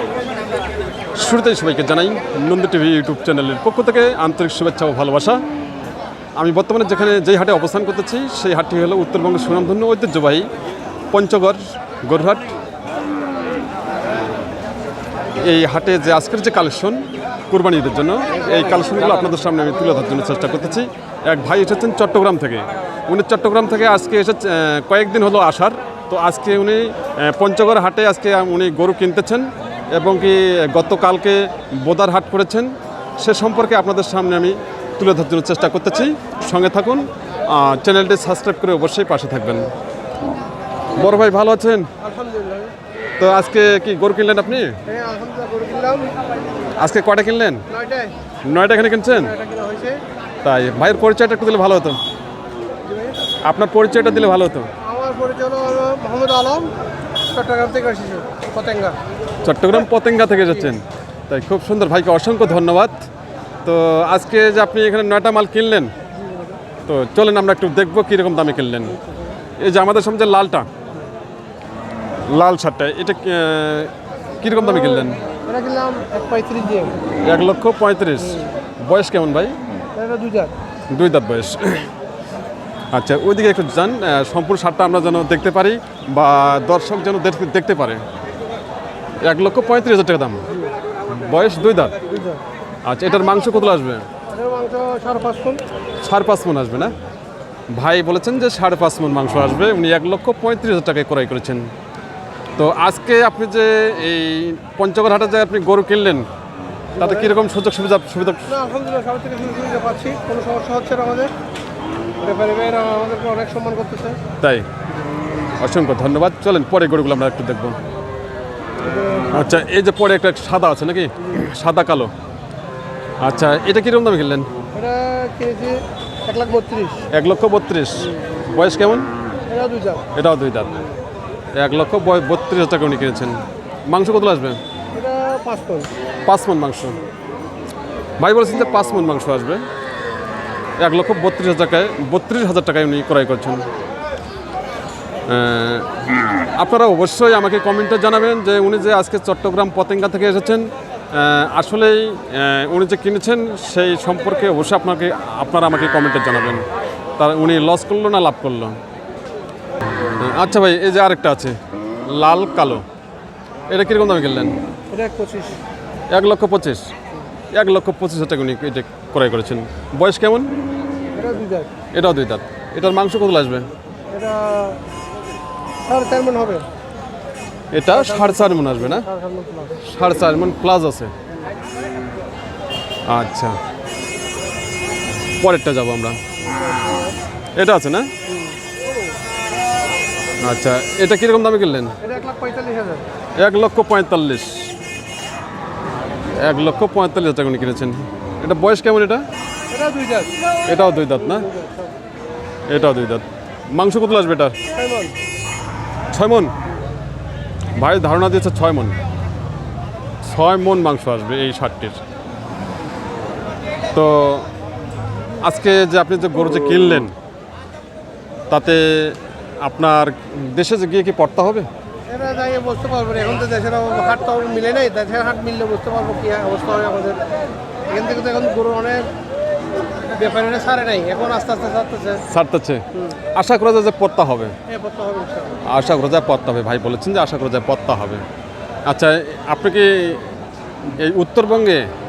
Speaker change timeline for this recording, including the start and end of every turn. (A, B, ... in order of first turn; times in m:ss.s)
0:01.1-0:05.4 A
0:06.4-0:10.5 A
0:11.1-0:12.5 A
0:15.4-0:39.7 A
0:18.3-0:19.7 B
0:40.9-0:41.9 A
0:42.0-0:42.7 B
0:43.2-0:44.8 A
0:44.8-0:46.2 B
0:46.8-0:47.6 A
0:47.7-0:48.2 B
0:48.4-0:49.3 A
0:49.1-0:50.0 B
0:50.4-0:52.0 A
0:52.8-0:53.2 B
0:53.4-0:54.7 A
0:54.8-0:56.7 B
0:57.3-0:59.0 B
0:59.4-1:03.0 A
1:03.6-1:05.9 A
1:06.2-1:06.6 B
1:06.8-1:09.0 A
1:09.0-1:09.4 B
1:09.6-1:10.7 A
1:12.3-1:15.2 A
1:14.6-1:17.0 B
1:17.2-1:19.6 A
1:18.2-1:18.5 B
1:19.9-1:20.5 B
1:20.9-1:21.8 A
1:22.9-1:28.0 A
1:29.2-1:30.5 A
1:31.1-1:31.9 A
1:31.9-1:32.4 B
1:32.8-1:34.1 A
1:34.3-1:35.6 B
1:36.0-1:36.9 A
1:37.7-1:41.7 A
1:42.6-1:46.3 A
1:46.9-1:47.4 B
1:47.0-1:48.5 A
1:48.5-1:51.3 B
1:52.2-1:54.2 B
1:54.4-1:54.7 A
1:55.6-1:57.8 A
1:58.8-1:59.4 B
1:59.2-2:02.1 A
2:03.2-2:04.5 A
2:04.7-2:07.0 B
2:07.1-2:09.1 A
2:09.5-2:10.1 B
2:10.1-2:10.7 A
2:11.5-2:14.6 A
2:14.9-2:15.9 B
2:16.2-2:17.0 A
2:18.2-2:19.6 A
2:20.8-2:23.7 A
2:25.3-2:36.6 A
2:37.2-2:38.8 A
2:40.2-2:42.8 A
2:43.7-2:44.6 A
2:44.9-2:45.6 B
2:46.1-2:46.9 A
2:47.5-2:50.5 A
2:51.1-2:51.7 B
2:51.9-2:53.7 A
2:54.1-2:54.8 B
2:55.9-2:56.7 B
2:57.7-2:59.0 A
2:57.9-2:59.8 B
2:59.8-3:01.1 A
3:03.0-3:03.6 A
3:05.4-3:06.2 A
3:06.4-3:07.2 B
3:07.6-3:08.1 A
3:08.3-3:08.6 B
3:10.4-3:12.0 A
3:12.0-3:13.0 B
3:13.4-3:14.7 A
3:16.4-3:19.2 A
3:19.7-3:20.4 B
3:20.6-3:21.5 A
3:21.1-3:22.0 B
3:22.7-3:24.6 A
3:24.7-3:25.2 B
3:26.1-3:26.5 A
3:27.7-3:29.0 A
3:30.2-3:32.0 A
3:33.9-3:34.5 A
3:35.4-3:37.1 A
3:38.5-3:41.7 A
3:42.1-3:47.2 B
3:47.9-3:49.1 B
3:50.1-3:52.2 B
3:52.2-3:54.6 A
3:54.7-3:55.6 B
3:55.6-3:58.2 A
3:58.9-4:00.3 A
4:01.0-4:01.9 A